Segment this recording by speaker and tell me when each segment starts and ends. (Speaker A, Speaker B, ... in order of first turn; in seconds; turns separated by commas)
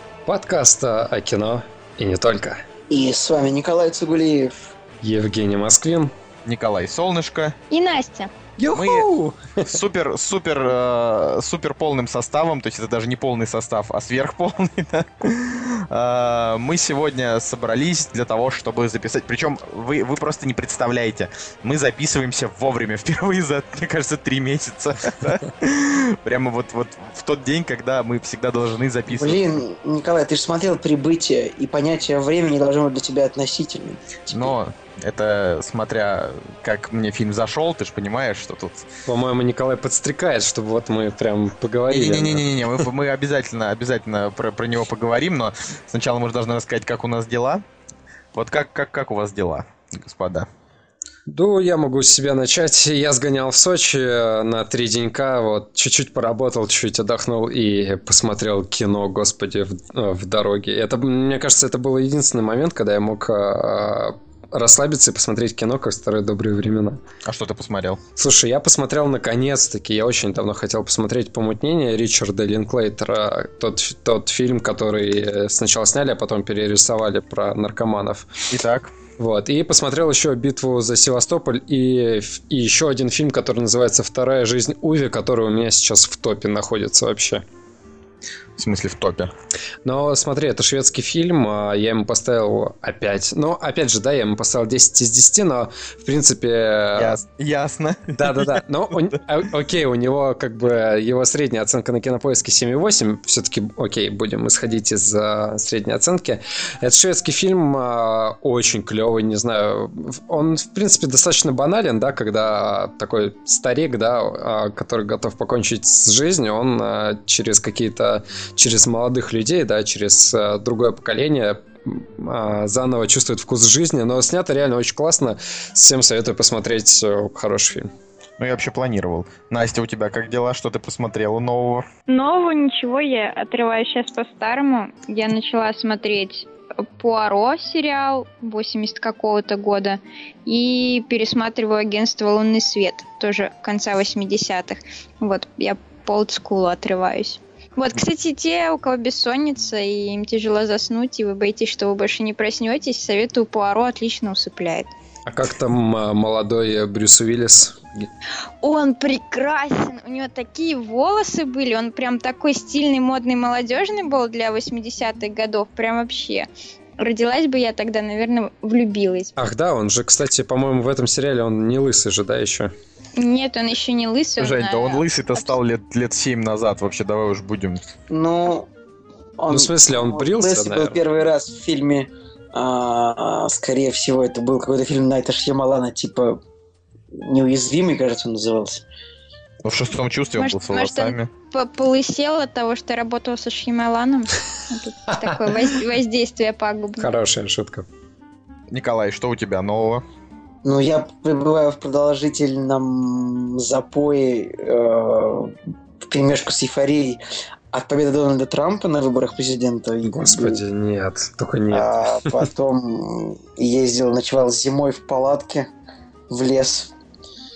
Speaker A: 0.3-2.6, Speaker B: 2.9-4.6, Speaker A: 5.0-6.1, Speaker C: 6.5-7.5, Speaker D: 7.7-8.3, Speaker A: 8.6-9.8, Speaker C: 8.7-9.1, Speaker C: 9.7-29.4, Speaker B: 29.1-34.5, Speaker C: 34.3-38.9, Speaker A: 39.1-42.5, Speaker C: 41.9-47.6, Speaker C: 48.4-50.5, Speaker A: 51.3-67.0, Speaker C: 67.3-68.0, Speaker A: 68.2-78.3, Speaker C: 78.5-78.9, Speaker A: 79.2-87.5, Speaker C: 88.6-89.3, Speaker A: 89.8-97.2, Speaker C: 97.0-98.6, Speaker A: 98.2-127.9, Speaker C: 128.4-131.9, Speaker D: 132.1-154.9, Speaker A: 155.3-158.1, Speaker D: 158.6-166.5, Speaker D: 167.0-169.3, Speaker A: 169.4-172.7, Speaker D: 173.2-175.5, Speaker C: 174.4-177.8, Speaker B: 178.1-178.7, Speaker B: 179.4-186.4, Speaker A: 179.5-181.0, Speaker B: 187.2-188.8, Speaker C: 189.6-191.3, Speaker D: 190.4-197.1, Speaker A: 195.2-195.6, Speaker A: 197.0-197.9, Speaker C: 198.7-200.0, Speaker B: 200.6-205.5, Speaker B: 206.1-207.2, Speaker B: 207.7-210.6, Speaker A: 210.0-212.5, Speaker B: 211.7-215.7, Speaker B: 216.3-216.9